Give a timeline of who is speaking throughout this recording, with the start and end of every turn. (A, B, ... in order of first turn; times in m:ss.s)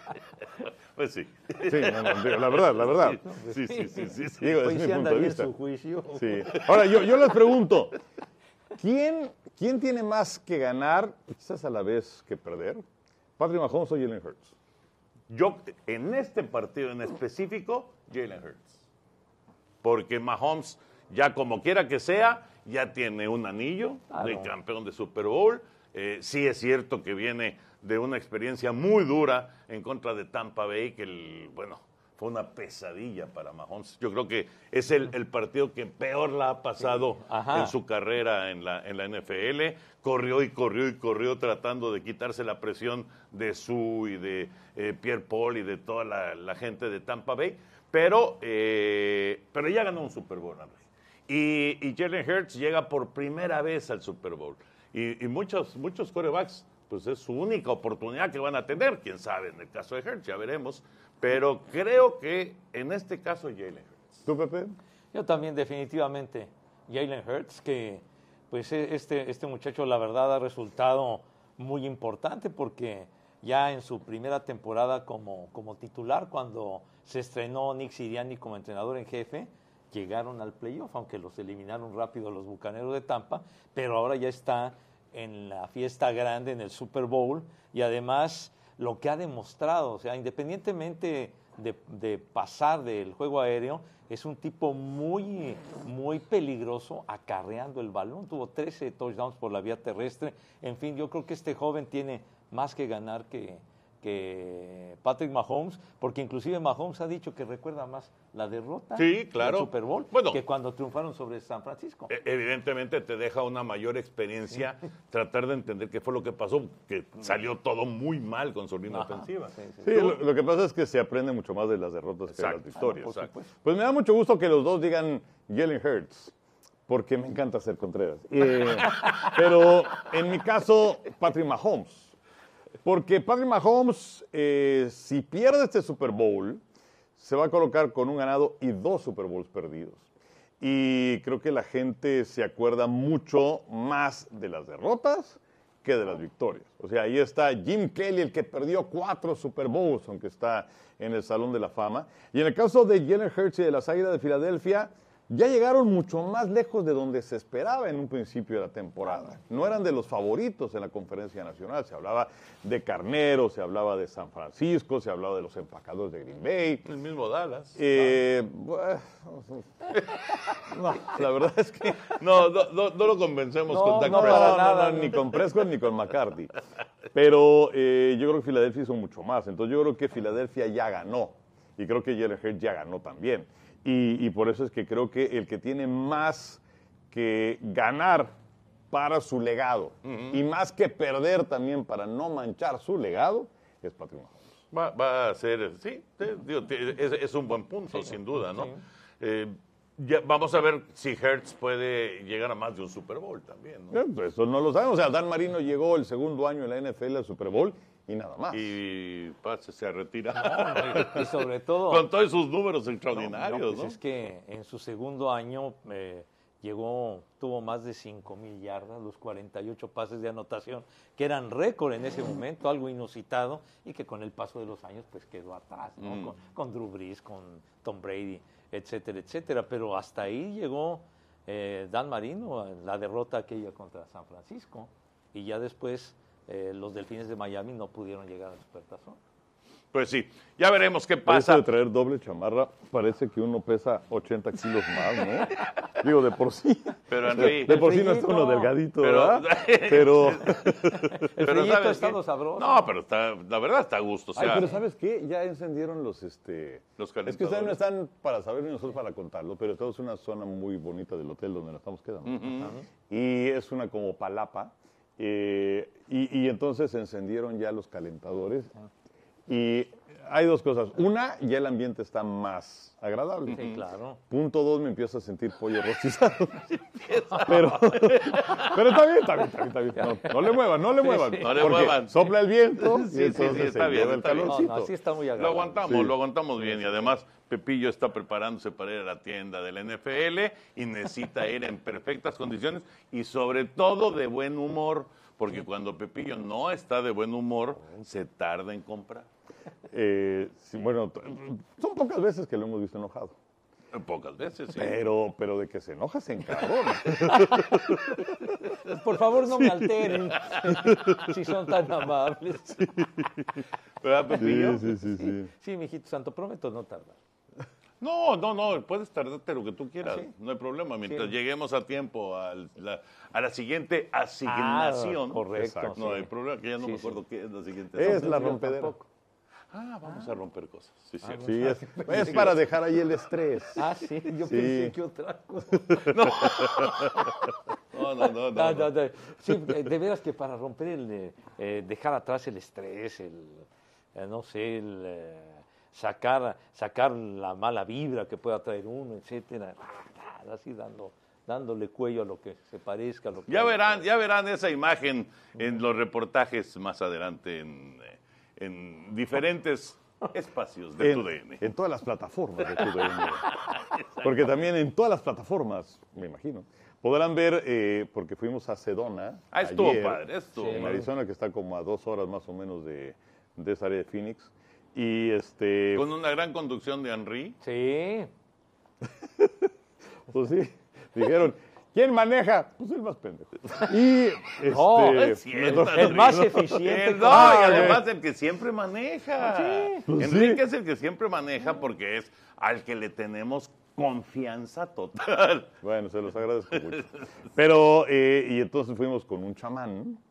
0:01.0-0:04.5 A
0:01.6-0:03.2 B
0:03.2-0:06.6 C
0:04.4-0:05.5 B
0:06.1-0:08.0 B
0:08.8-0:12.8 B
0:13.4-0:14.5 B
0:15.3-0:18.8 A
0:19.8-1:04.2 A
0:24.1-0:24.5 C
0:37.2-0:37.7 C
1:04.2-1:04.8 B
1:05.1-1:52.1 C
1:49.0-1:50.4 A
1:52.1-1:59.5 A
1:58.9-2:00.2 C
1:59.8-2:06.3 B
2:02.3-2:03.3 A
2:02.8-2:03.5 C
2:06.9-2:12.1 B
2:12.8-2:16.6 B
2:17.2-2:20.1 B
2:20.6-2:46.8 B
2:46.8-2:48.0 A
2:47.8-2:52.1 B
2:52.0-2:55.2 A
2:53.7-2:55.2 C
2:54.0-2:56.5 B
2:57.1-3:08.3 B
3:08.9-3:14.6 B
3:10.0-3:10.4 A
3:14.7-3:24.0 A
3:18.4-3:18.8 C
3:23.9-3:28.7 B
3:28.5-3:34.0 A
3:30.4-3:32.1 C
3:33.1-3:59.2 C
3:46.0-3:46.3 A
3:59.9-4:01.7 A
4:01.2-4:11.2 B
4:07.1-4:07.8 A
4:07.4-4:08.7 C
4:09.0-4:14.7 A
4:11.0-4:12.9 C
4:14.4-4:28.7 B
4:17.0-4:17.8 A
4:22.2-4:22.7 A
4:29.5-4:33.7 B
4:33.5-4:33.8 A
4:33.5-4:34.2 C
4:34.3-4:36.7 B
4:36.8-4:38.7 A
4:37.4-4:44.9 B
4:39.9-4:41.8 C
4:41.4-4:44.6 A
4:44.4-4:46.0 C
4:45.4-4:59.3 A
4:45.8-4:46.1 B
4:59.9-5:03.4 B
5:03.9-5:05.0 A
5:04.7-5:07.9 B
5:07.2-5:07.8 C
5:08.9-5:13.0 C
5:10.5-5:10.9 A
5:14.0-5:14.9 A
5:14.4-5:15.5 B
5:14.6-5:17.2 C
5:18.0-5:28.5 A
5:20.0-5:20.3 C
5:21.1-5:21.3 C
5:24.4-5:27.2 C
5:25.6-5:26.2 B
5:27.9-5:29.0 B
5:28.0-5:29.0 C
5:29.7-5:32.6 A
5:31.2-5:32.6 C
5:31.4-5:33.8 B
5:33.8-5:37.3 C
5:34.4-5:34.9 B
5:36.0-5:37.3 A
5:37.9-5:38.9 A
5:38.5-5:54.0 C
5:53.5-6:01.6 A
6:01.0-6:03.5 B
6:02.8-6:04.4 A
6:04.2-6:16.1 B
6:09.5-6:10.9 A
6:10.6-6:11.1 C
6:15.9-6:17.6 A
6:17.6-6:18.3 C
6:19.2-6:19.7 B
6:20.3-6:28.0 B
6:24.7-6:28.0 C
6:25.1-6:35.7 A
6:29.4-6:30.1 C
6:30.1-6:30.6 B
6:35.8-6:40.2 B
6:36.8-6:37.2 A